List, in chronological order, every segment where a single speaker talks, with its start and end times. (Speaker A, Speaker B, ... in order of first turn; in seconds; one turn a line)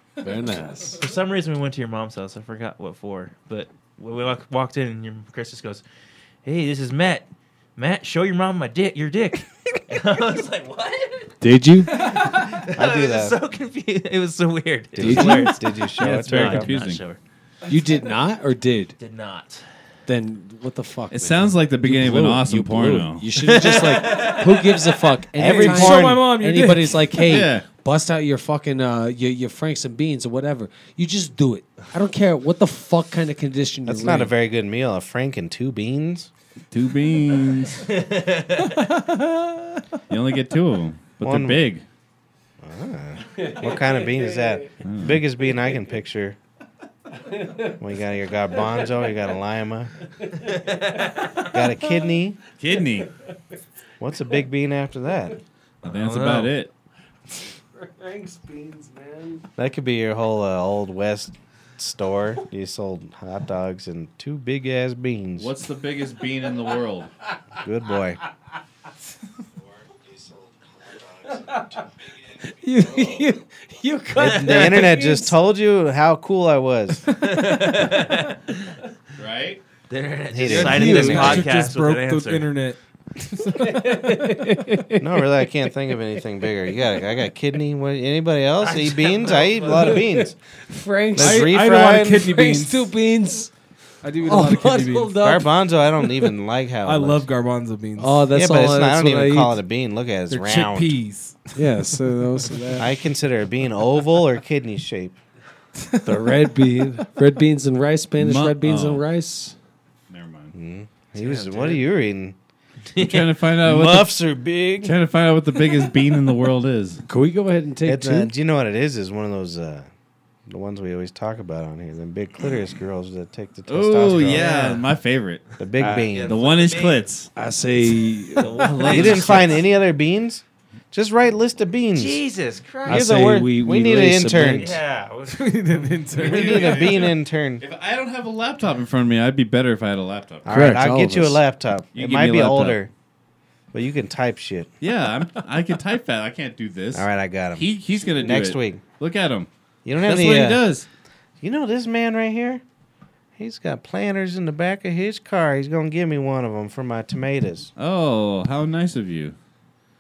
Speaker A: 0.2-1.0
Speaker B: 1.0-5.8
Speaker B: 6.4-11.3
Speaker A: 11.4-12.1
Speaker B: 11.9-17.2
Speaker C: 12.7-13.4
Speaker C: 14.9-16.7
Speaker A: 15.0-15.6
Speaker D: 16.0-17.0
Speaker A: 17.7-18.9
Speaker B: 19.0-19.6
Speaker A: 20.1-34.3
Speaker D: 21.1-23.3
Speaker B: 23.4-25.0
Speaker C: 25.4-26.3
Speaker E: 25.4-27.2
Speaker D: 27.2-27.6
Speaker C: 33.9-36.3
Speaker D: 36.7-37.9
Speaker B: 38.0-38.7
Speaker E: 38.9-39.5
Speaker D: 40.1-41.9
Speaker C: 41.2-41.6
Speaker C: 42.6-46.4
Speaker A: 43.4-44.7
Speaker D: 44.8-45.2
Speaker A: 47.2-47.8
Speaker C: 47.8-49.9
Speaker A: 50.2-51.3
Speaker C: 51.5-52.4
Speaker D: 52.6-53.1
Speaker C: 54.0-55.4
Speaker B: 55.8-56.5
Speaker D: 55.8-56.7
Speaker A: 57.7-59.5
Speaker C: 59.6-65.5
Speaker D: 65.4-67.1
Speaker C: 67.6-68.2
Speaker A: 71.3-71.8
Speaker A: 72.4-75.3
Speaker C: 74.2-77.0
Speaker B: 77.1-78.8
Speaker D: 79.2-79.6
Speaker B: 79.9-82.5
Speaker C: 80.3-81.5
Speaker E: 80.5-84.3
Speaker A: 80.7-81.2
Speaker A: 83.6-85.5
Speaker C: 85.0-90.3
Speaker B: 88.6-90.0
Speaker A: 89.8-93.5
Speaker C: 91.2-92.3
Speaker E: 91.2-92.9
Speaker E: 94.0-95.2
Speaker A: 94.2-95.5
Speaker C: 95.2-97.2
Speaker E: 96.8-98.3
Speaker A: 98.0-99.6
Speaker C: 98.3-100.9
Speaker E: 100.3-101.5
Speaker A: 101.6-102.9
Speaker C: 102.8-105.2
Speaker E: 105.8-106.4
Speaker A: 106.0-109.5
Speaker D: 108.2-109.0
Speaker D: 110.1-110.5
Speaker C: 110.5-112.4
Speaker B: 111.2-111.8
Speaker B: 112.9-113.3
Speaker D: 113.0-114.2
Speaker C: 113.6-115.0
Speaker D: 114.8-117.0
Speaker A: 117.1-118.3
Speaker C: 117.8-119.9
Speaker C: 120.5-124.7
Speaker D: 123.7-125.4
Speaker B: 124.2-124.9
Speaker C: 125.6-126.4
Speaker A: 125.8-126.1
Speaker B: 126.0-127.1
Speaker D: 126.3-127.3
Speaker A: 127.3-129.2
Speaker B: 128.4-129.6
Speaker D: 128.6-129.6
Speaker C: 128.8-132.2
Speaker B: 131.9-133.1
Speaker C: 132.8-134.8
Speaker A: 132.9-134.8
Speaker B: 134.6-136.9
Speaker E: 135.3-136.9
Speaker D: 136.2-140.6
Speaker C: 136.2-137.6
Speaker C: 140.4-142.9
Speaker A: 140.5-141.4
Speaker D: 141.9-142.8
Speaker C: 143.7-144.7
Speaker D: 144.8-150.9
Speaker C: 146.9-148.8
Speaker C: 149.8-150.6
Speaker C: 151.4-152.6
Speaker C: 153.4-157.7
Speaker D: 157.8-159.4